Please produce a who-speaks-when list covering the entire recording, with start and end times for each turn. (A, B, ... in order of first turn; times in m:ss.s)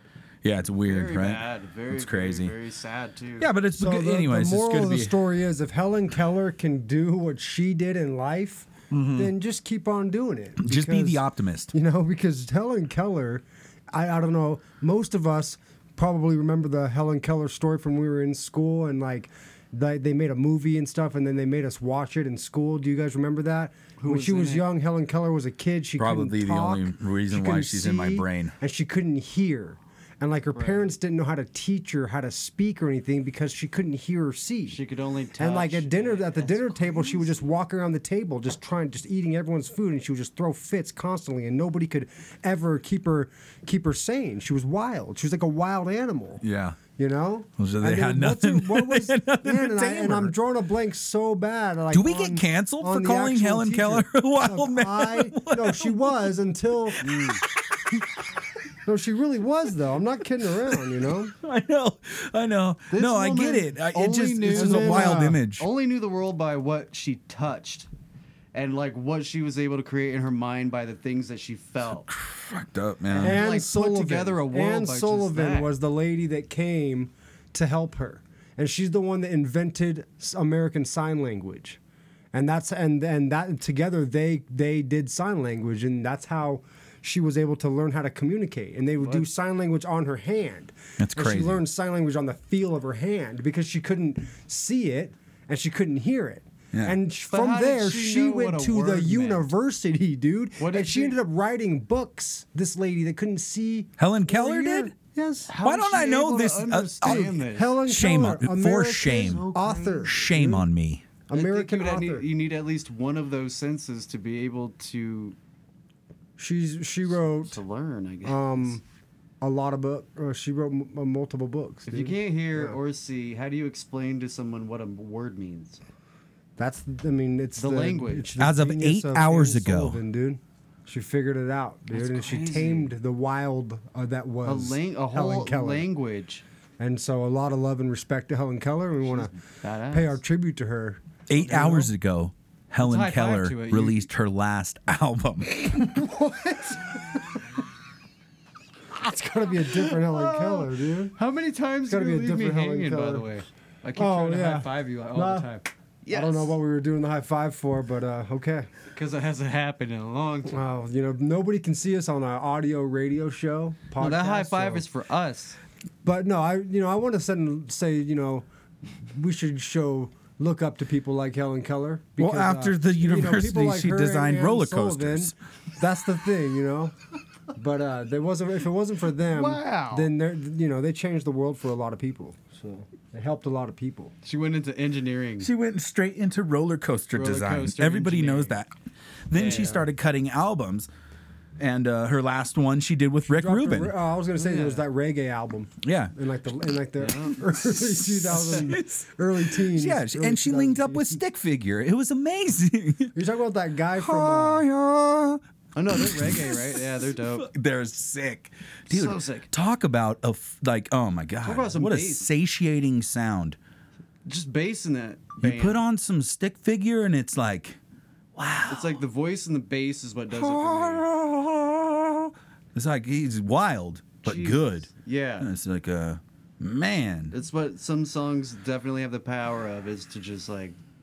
0:00.4-0:02.5 A
0:00.8-0:03.5 B
0:03.4-0:05.2 A
0:03.8-0:34.8 C
0:08.9-0:09.3 A
0:10.6-0:11.7 A
0:24.0-0:24.7 B
0:26.0-0:28.5 A
0:30.5-0:30.9 B
0:34.7-0:37.5 B
0:35.4-0:46.4 C
0:46.4-0:46.8 A
0:47.0-0:57.1 C
0:47.6-0:50.3 A
0:51.9-0:56.3 A
0:57.0-0:57.4 B
0:58.9-1:01.3 C
1:00.7-1:05.7 A
1:02.9-1:07.9 B
1:04.5-1:05.4 C
1:08.5-1:12.1 B
1:12.1-1:13.4 A
1:13.1-1:15.7 B
1:13.1-1:21.8 C
1:22.3-1:45.5 C
1:29.0-1:29.2 B
1:31.0-1:31.6 A
1:36.7-1:37.0 A
1:37.3-1:39.4 B
1:40.6-1:41.1 B
1:44.0-1:44.9 A
1:45.5-1:47.8 B
1:45.6-1:49.5 A
1:47.0-1:50.6 C
1:49.1-1:50.2 B
1:50.0-1:51.0 A
1:51.3-1:52.2 C
1:51.3-1:55.4 B
1:56.4-1:57.6 C
1:57.4-1:58.8 B
1:58.2-1:58.8 C
1:59.4-2:02.8 C
2:01.9-2:05.8 B
2:06.6-2:15.9 C
2:07.6-2:08.3 B
2:08.4-2:10.0 A
2:11.9-2:12.9 B
2:14.5-2:16.4 B
2:16.8-2:19.3 C
2:19.1-2:20.2 B
2:19.9-2:21.9 C
2:21.3-2:25.9 A
2:22.8-2:24.1 B
2:25.6-2:27.4 C
2:28.9-2:31.1 C
2:29.6-2:36.5 B
2:31.9-2:33.3 C
2:34.0-2:35.5 C
2:36.1-2:38.7 C
2:38.9-2:40.6 B
2:40.5-2:44.8 C
2:44.0-2:45.6 B
2:46.0-2:56.9 C
2:52.2-2:55.3 A
2:57.5-3:04.1 C
2:59.2-3:00.1 B
3:04.2-3:05.5 B
3:05.4-3:08.7 A
3:07.1-3:08.6 B
3:09.3-3:10.9 A
3:09.3-3:09.9 B
3:11.6-3:13.9 A
3:13.3-3:21.2 C
3:14.4-3:14.8 B
3:15.8-3:16.1 A
3:17.0-3:17.4 B
3:17.7-3:23.1 A
3:23.1-3:24.6 C
3:24.0-3:33.6 A
3:25.8-3:27.5 B
3:28.9-3:29.5 B
3:31.4-3:32.3 B
3:34.2-3:35.8 B
3:35.4-3:37.8 A
3:38.4-3:39.0 A
3:38.7-3:41.0 B
3:40.3-3:47.3 A
3:44.2-3:45.5 B
3:47.3-3:50.8 B